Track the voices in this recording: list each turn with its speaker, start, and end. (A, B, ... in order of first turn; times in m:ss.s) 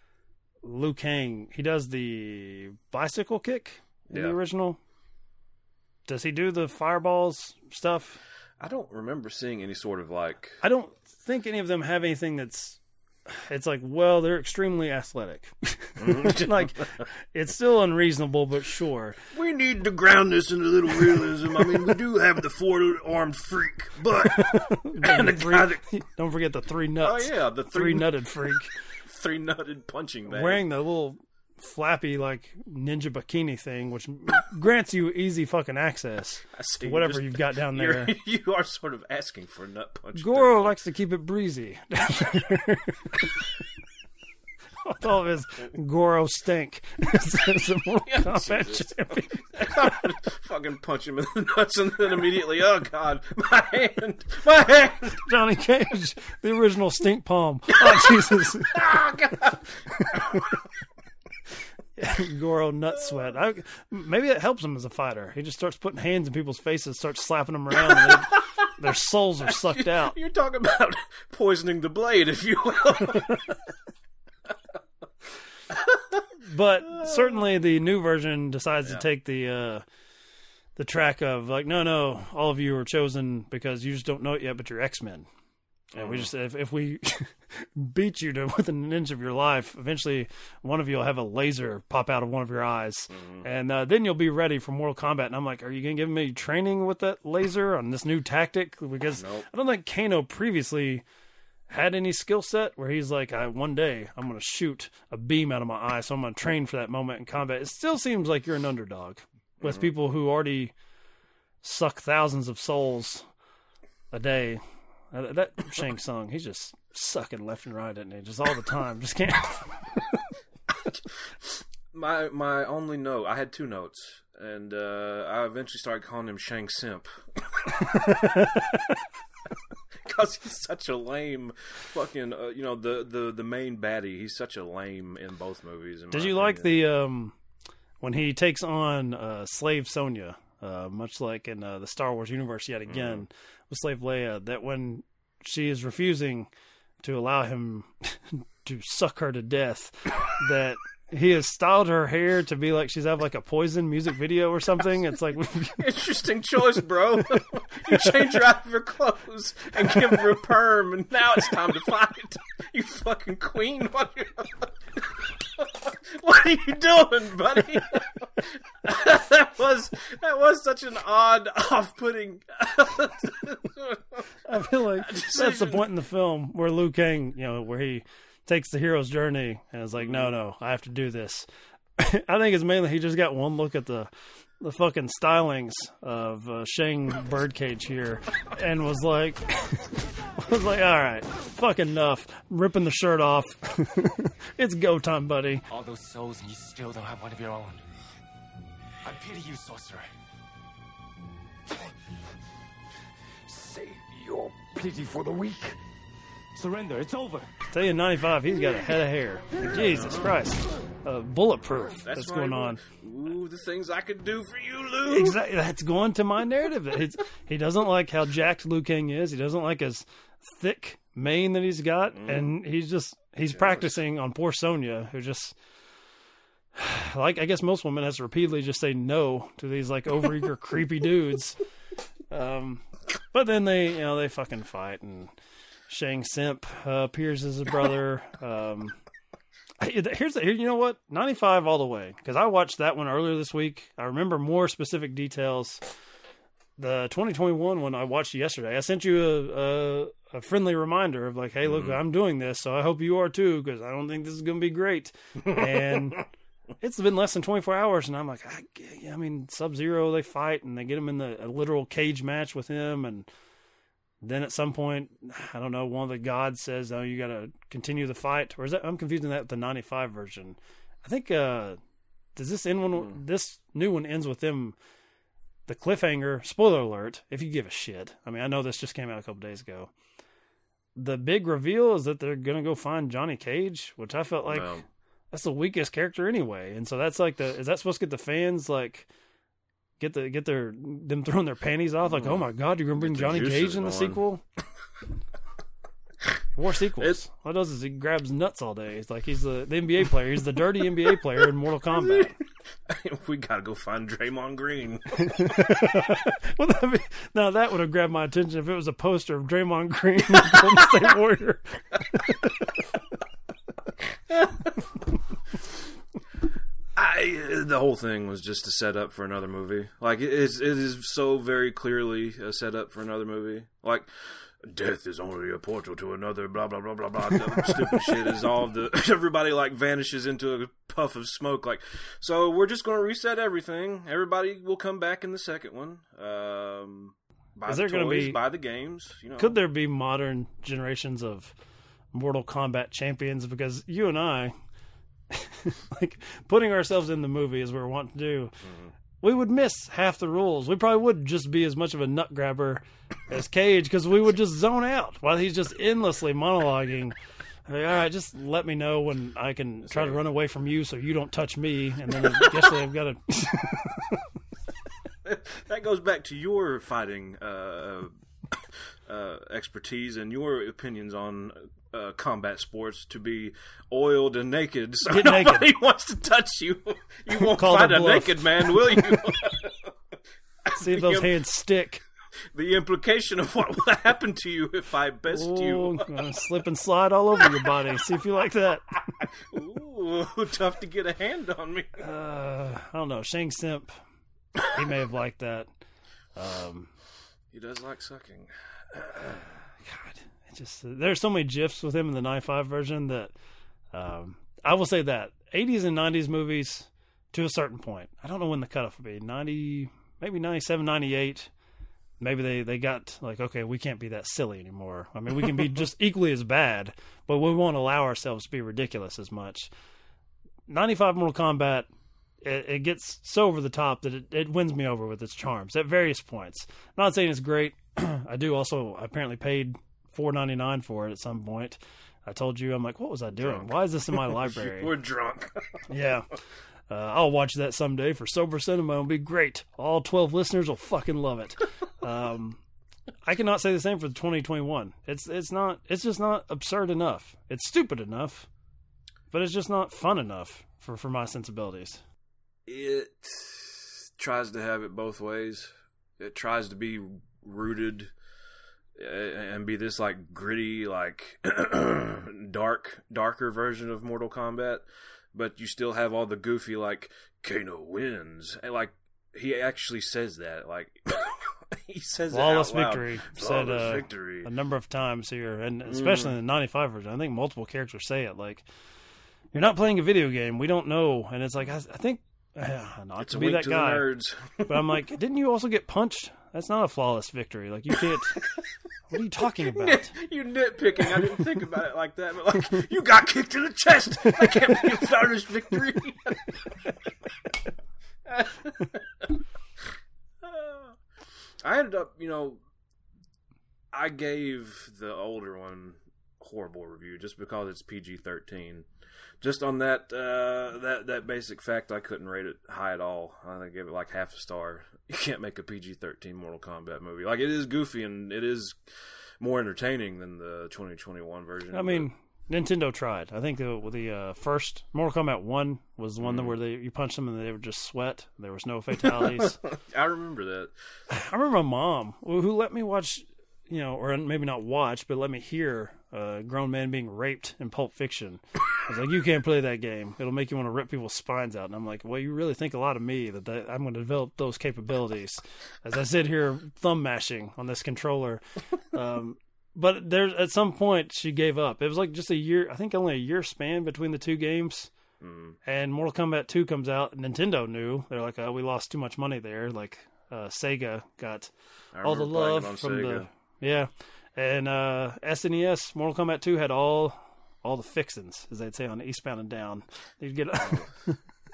0:00.6-0:04.8 A
0:04.1-0:04.4 B
0:06.1-0:08.2 A
0:08.6-0:10.6 B
0:10.6-0:19.2 A
0:16.0-0:17.0 B
0:19.3-0:25.9 B
0:21.6-0:22.0 A
0:24.2-0:28.8 A
0:27.0-0:30.7 B
0:30.3-0:38.1 A
0:36.5-0:40.8 B
0:40.2-0:43.3 A
0:44.8-0:49.4 A
0:48.1-0:55.2 B
0:55.2-0:58.8 A
0:57.8-0:58.2 B
0:58.7-1:00.4 B
1:00.0-1:00.6 A
1:02.0-1:10.2 A
1:07.9-1:08.7 B
1:09.5-1:13.5 B
1:15.7-1:16.2 B
1:16.4-1:19.8 A
1:16.9-1:17.4 B
1:20.8-1:25.3 A
1:25.9-1:41.0 A
1:26.0-1:26.3 B
1:33.1-1:33.5 B
1:39.2-1:39.5 B
1:41.7-1:50.7 A
1:49.6-1:49.9 B
1:51.6-1:53.3 A
1:54.1-1:59.8 A
2:00.7-2:08.4 B
2:08.1-2:08.8 A
2:10.0-2:16.8 B
2:16.1-2:17.4 A
2:18.0-2:26.5 A
2:22.9-2:23.2 B
2:27.0-2:35.8 A
2:35.8-2:54.2 B
2:54.5-3:01.5 A
2:54.9-2:55.9 B
3:00.0-3:00.3 B
3:02.0-3:04.1 A
3:04.6-3:15.6 A
3:15.7-3:17.8 C
3:19.0-3:20.1 C
3:23.5-3:25.8 C
3:26.6-3:27.5 C
3:27.7-3:32.8 A
3:29.6-3:30.6 B
3:31.7-3:35.4 B
3:35.1-3:45.6 A
3:42.2-3:42.5 B
3:43.5-3:44.0 B
3:46.8-3:51.6 A
3:52.3-3:55.3 A
3:55.9-3:59.0 A
3:59.8-4:05.8 A
4:06.8-4:16.3 A
4:11.6-4:12.0 B
4:15.5-4:16.2 B
4:16.8-4:23.3 A
4:24.2-4:31.8 A
4:32.4-4:34.8 A
4:35.7-4:39.9 A
4:41.0-4:44.8 A
4:44.5-4:44.8 B
4:45.3-4:49.1 A
4:50.0-4:54.4 A
4:52.1-4:54.2 B
4:56.6-5:02.4 A
5:01.9-5:02.3 B
5:02.9-5:05.5 B
5:05.2-5:12.7 A
5:10.4-5:10.8 B
5:14.3-5:14.8 B
5:17.0-5:39.6 B
5:37.7-5:38.4 A
5:39.4-5:41.5 A
5:42.1-5:44.6 A
5:45.3-5:48.5 A
5:48.6-5:48.9 B
5:49.2-6:04.2 A
5:59.9-6:00.2 B
6:02.3-6:02.8 B
6:05.2-6:08.6 B
6:09.1-6:19.9 B
6:15.1-6:15.7 A
6:17.4-6:19.2 A
6:20.7-6:21.4 B
6:20.7-6:22.0 A
6:22.5-6:26.2 B
6:25.3-6:28.9 A
6:29.2-6:32.0 B
6:32.0-6:33.9 A
6:34.7-6:35.7 A
6:36.4-6:36.9 A
6:37.5-6:39.5 B
6:39.8-6:43.3 A
6:43.9-6:51.5 A
6:52.2-6:59.7 A
7:00.7-7:01.9 A
7:02.4-7:14.9 A
7:13.4-7:15.8 B
7:15.9-7:16.3 A
7:16.9-7:22.6 A
7:23.2-7:28.5 A
7:29.3-7:32.0 A
7:32.7-7:38.1 B
7:39.0-7:54.5 B
7:52.3-7:58.6 A
7:55.9-7:56.4 B
7:59.5-8:04.1 A
8:03.2-8:05.0 B
8:04.7-8:08.5 A
8:09.1-8:10.1 A
8:09.7-8:16.6 B
8:14.4-8:14.8 A
8:18.3-8:19.3 B
8:20.4-8:21.0 B
8:21.6-8:22.6 B
8:23.9-8:28.9 B
8:29.4-8:38.8 B
8:39.4-8:42.1 B
8:41.7-8:49.6 A
8:46.2-8:46.5 B
8:49.0-8:50.7 B
8:51.1-9:08.4 A
9:08.9-9:14.9 A
9:15.2-9:15.6 B
9:15.6-9:21.5 A
9:21.9-9:23.3 B
9:22.0-9:31.2 A